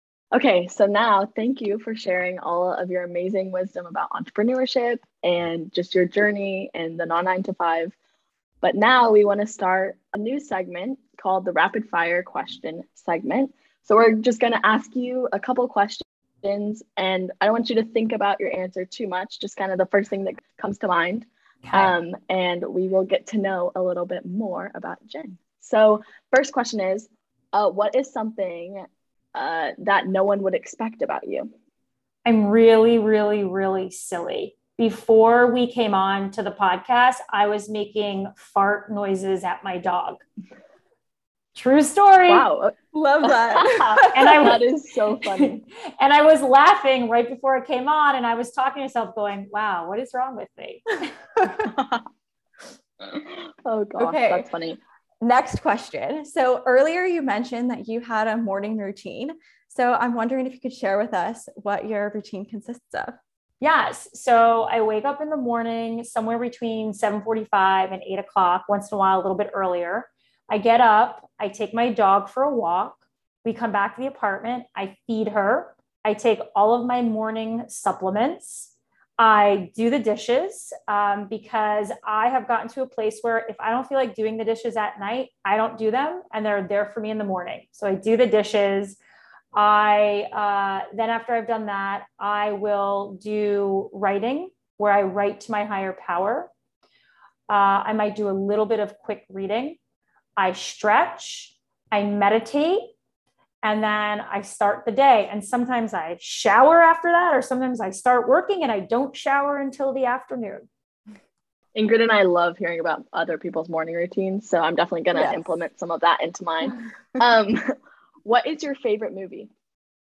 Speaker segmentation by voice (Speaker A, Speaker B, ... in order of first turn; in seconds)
Speaker A: 0.3-7.9, 8.6-31.5, 42.3-45.6, 53.0-54.8, 111.7-119.5
Speaker B: 21.6-21.9, 32.2-40.2, 41.5-42.5, 44.1-44.6, 45.2-51.0, 63.6-89.0, 89.5-96.5, 97.5-99.8, 100.4-102.9, 103.6-110.7
Speaker C: 42.9-44.4, 54.0-54.5, 55.2-63.1, 115.1-115.6